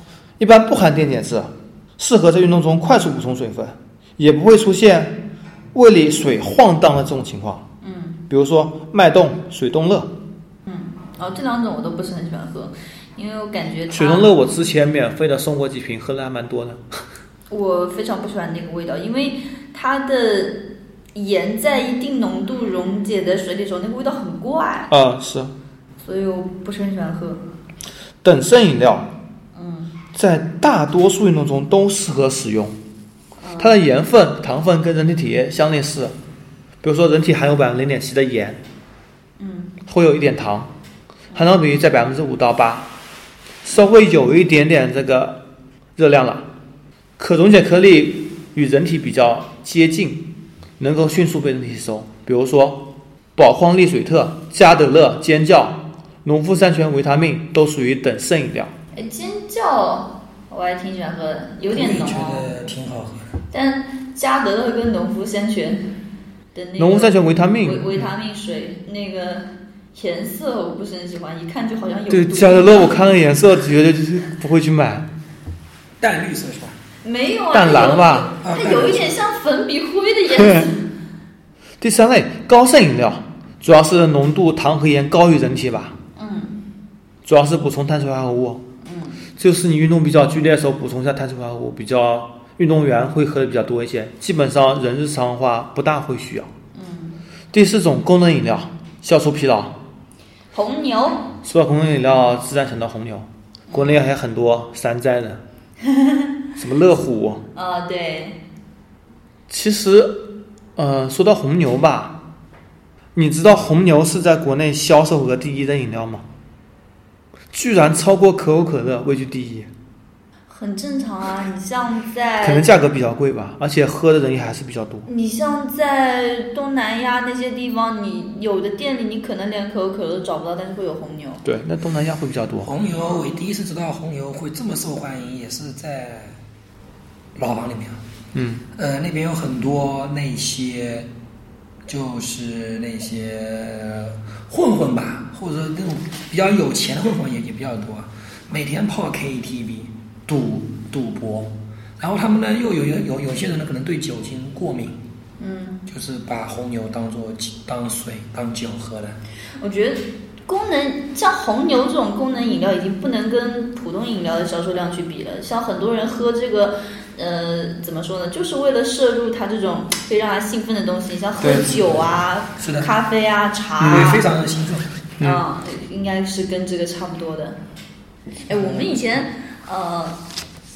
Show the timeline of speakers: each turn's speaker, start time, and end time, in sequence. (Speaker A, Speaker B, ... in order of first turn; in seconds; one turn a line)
Speaker A: 0.4-5.2
Speaker A: 5.7-7.7
Speaker B: 7.8-8.2
Speaker A: 8.3-10.2
Speaker B: 10.7-14.3
Speaker A: 13.9-16.9
Speaker B: 17.5-20.6
Speaker B: 21.1-24.9
Speaker A: 24.9-25.5
Speaker B: 26.0-27.4
Speaker A: 28.2-29.1
Speaker B: 29.6-29.9
Speaker A: 30.1-32.8
Speaker B: 33.4-33.8
Speaker A: 33.6-36.2
Speaker A: 36.8-38.6
Speaker B: 39.4-39.8
Speaker A: 39.9-40.7
Speaker A: 41.3-42.9
Speaker A: 43.6-45.4
Speaker A: 46.0-46.5
Speaker A: 47.2-58.7
Speaker B: 58.9-62.5
Speaker C: 61.7-63.2
Speaker B: 63.5-65.9
Speaker B: 66.5-73.0
Speaker A: 66.8-68.1
Speaker A: 72.1-75.1
Speaker C: 76.0-76.8
Speaker B: 77.0-80.8
Speaker A: 77.5-78.3
Speaker C: 78.4-79.2
Speaker A: 80.3-80.7
Speaker A: 81.8-86.0
Speaker B: 86.2-86.6
Speaker A: 87.2-88.6
Speaker B: 88.8-89.2
Speaker A: 89.4-96.5
Speaker B: 96.7-97.2
Speaker A: 97.5-99.8
Speaker B: 100.5-101.3
Speaker A: 101.4-105.4
Speaker B: 103.7-104.0
Speaker B: 105.8-106.3
Speaker A: 106.6-107.5
Speaker B: 107.5-108.4
Speaker A: 109.5-112.2
Speaker A: 113.2-116.3
Speaker A: 117.5-119.7
Speaker B: 120.5-122.8
Speaker A: 122.4-125.1
Speaker B: 125.1-131.4
Speaker A: 131.4-132.7
Speaker C: 132.6-136.4
Speaker C: 137.4-138.0
Speaker A: 138.3-138.6
Speaker C: 138.8-141.1
Speaker C: 141.9-155.0
Speaker B: 155.4-155.8
Speaker C: 155.9-159.2
Speaker B: 159.6-174.3
Speaker C: 171.4-172.9
Speaker A: 173.8-174.2
Speaker C: 173.8-174.8
Speaker B: 175.2-177.6
Speaker B: 178.5-180.2
Speaker C: 178.5-179.2